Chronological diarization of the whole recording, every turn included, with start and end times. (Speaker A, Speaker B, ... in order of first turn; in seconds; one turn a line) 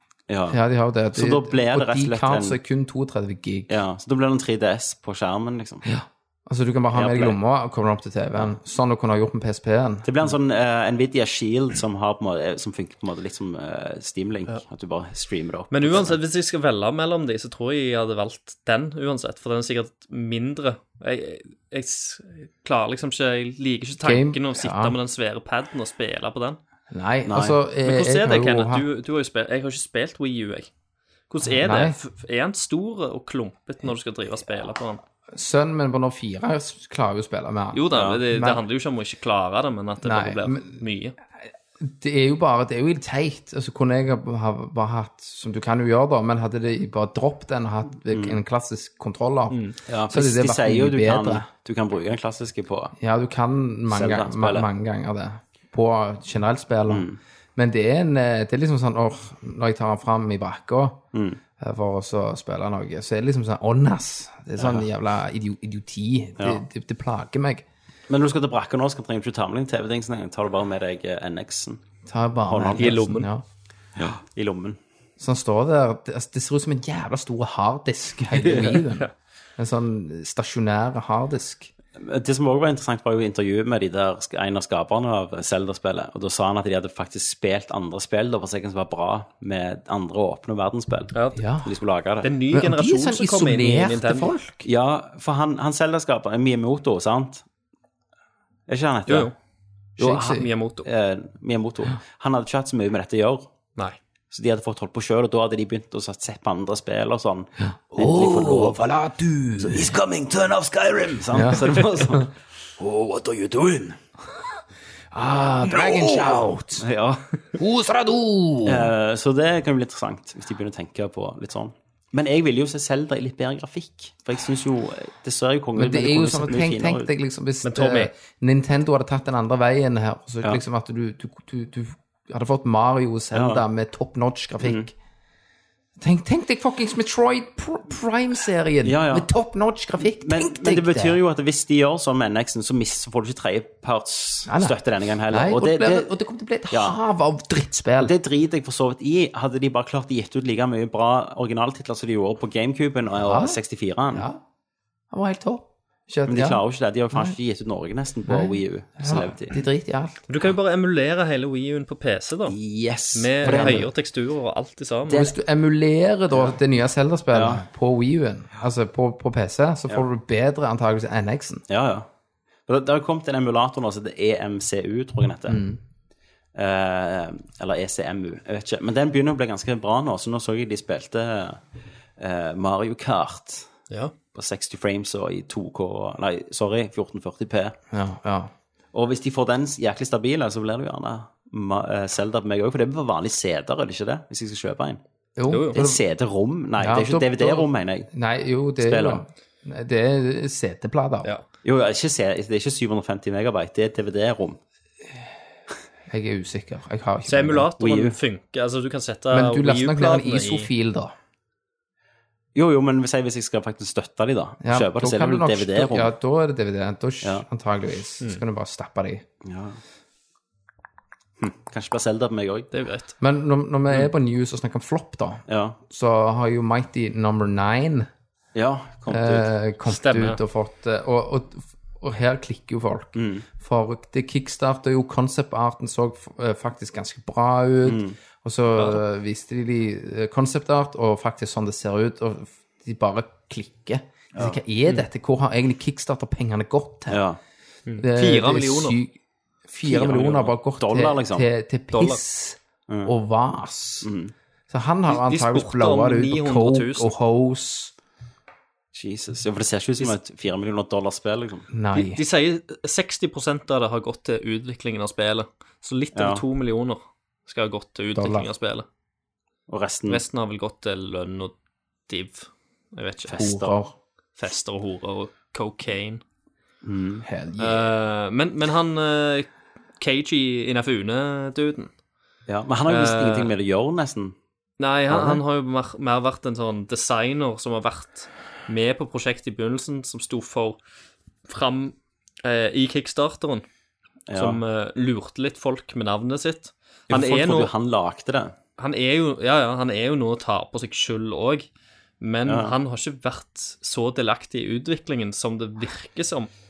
Speaker A: 0.3-0.6
Speaker B: 0.5-3.7
Speaker A: 1.1-2.6
Speaker A: 3.7-5.8
Speaker B: 5.8-10.1
Speaker A: 6.9-7.4
Speaker A: 10.1-16.2
Speaker C: 15.7-26.6
Speaker B: 24.0-25.0
Speaker B: 26.9-28.8
Speaker A: 27.2-27.6
Speaker C: 27.8-30.7
Speaker C: 31.3-35.0
Speaker B: 31.4-32.0
Speaker B: 35.3-38.6
Speaker C: 37.7-41.1
Speaker A: 37.9-38.2
Speaker B: 40.0-40.8
Speaker B: 41.8-51.5
Speaker A: 48.1-48.4
Speaker C: 49.5-49.8
Speaker A: 49.9-53.0
Speaker B: 53.0-61.0
Speaker A: 53.9-54.7
Speaker A: 56.9-57.2
Speaker A: 61.1-61.4
Speaker B: 61.6-67.7
Speaker A: 64.6-64.8
Speaker A: 68.1-71.8
Speaker B: 72.1-73.4
Speaker A: 72.5-73.0
Speaker C: 72.8-73.3
Speaker A: 74.0-74.8
Speaker B: 75.2-81.7
Speaker C: 78.7-79.1
Speaker A: 82.0-92.3
Speaker C: 91.1-91.4
Speaker B: 91.3-91.7
Speaker C: 92.2-94.4
Speaker B: 92.5-94.7
Speaker A: 94.7-97.5
Speaker A: 98.7-99.3
Speaker C: 99.1-99.3
Speaker A: 100.0-103.5
Speaker B: 100.0-100.5
Speaker C: 100.2-100.9
Speaker A: 104.3-108.8
Speaker B: 107.7-110.0
Speaker A: 109.6-114.0
Speaker B: 111.3-112.2
Speaker B: 115.1-116.9
Speaker A: 115.6-117.2
Speaker B: 117.6-118.9
Speaker A: 118.7-127.1
Speaker B: 125.8-134.9
Speaker C: 127.6-128.1
Speaker A: 133.3-133.6
Speaker A: 134.6-134.9
Speaker B: 136.0-141.2
Speaker A: 138.8-139.3
Speaker A: 140.0-146.1
Speaker B: 144.5-144.8
Speaker B: 145.3-148.1
Speaker A: 146.7-147.0
Speaker A: 148.0-154.3
Speaker B: 153.2-153.6
Speaker B: 154.1-154.4
Speaker B: 155.1-157.4
Speaker A: 156.3-159.6
Speaker B: 158.3-160.2
Speaker C: 160.3-162.6
Speaker A: 162.5-163.9
Speaker C: 163.1-165.3
Speaker B: 163.4-163.9
Speaker B: 165.1-171.6
Speaker A: 167.3-167.6
Speaker A: 171.7-172.1
Speaker A: 172.7-175.6
Speaker B: 175.5-175.8
Speaker A: 176.6-181.6
Speaker A: 182.2-183.7
Speaker A: 184.3-187.8
Speaker B: 187.9-188.5
Speaker A: 188.9-195.0
Speaker B: 195.4-196.0
Speaker C: 195.5-195.8
Speaker A: 195.7-198.1
Speaker B: 196.8-201.3
Speaker A: 198.8-199.2
Speaker A: 201.6-204.6
Speaker B: 206.1-207.7
Speaker C: 207.3-210.7
Speaker A: 207.8-208.2
Speaker B: 209.3-211.1
Speaker A: 212.6-216.1
Speaker B: 214.6-219.2
Speaker A: 219.4-219.8
Speaker A: 221.4-222.7
Speaker C: 222.7-223.1
Speaker B: 223.2-228.1
Speaker A: 225.5-225.8
Speaker A: 228.6-229.5
Speaker B: 229.1-247.2
Speaker C: 229.9-230.4
Speaker A: 233.2-233.4
Speaker A: 237.8-238.2
Speaker A: 244.3-244.6
Speaker A: 247.1-247.4
Speaker C: 247.9-249.0
Speaker B: 248.0-249.2
Speaker B: 249.7-254.1
Speaker A: 249.9-251.5
Speaker C: 251.9-252.2
Speaker A: 254.0-254.3
Speaker B: 254.7-257.9
Speaker C: 255.1-257.1
Speaker A: 258.9-261.7
Speaker B: 261.7-262.2
Speaker C: 261.9-268.9
Speaker A: 266.1-266.4
Speaker B: 268.1-268.5
Speaker A: 269.7-270.2
Speaker C: 270.1-271.5
Speaker C: 272.1-273.7
Speaker A: 273.3-273.7
Speaker B: 273.3-273.9
Speaker C: 274.4-276.2
Speaker A: 276.8-277.2
Speaker B: 277.2-277.9
Speaker C: 277.6-279.5
Speaker C: 280.0-281.9
Speaker A: 282.5-284.4
Speaker C: 282.9-283.5
Speaker C: 284.8-290.8
Speaker A: 285.1-285.4
Speaker C: 291.5-293.6
Speaker A: 294.3-294.6
Speaker C: 294.3-297.7
Speaker A: 297.1-298.6
Speaker C: 298.8-301.7
Speaker C: 302.2-306.5
Speaker A: 302.4-302.8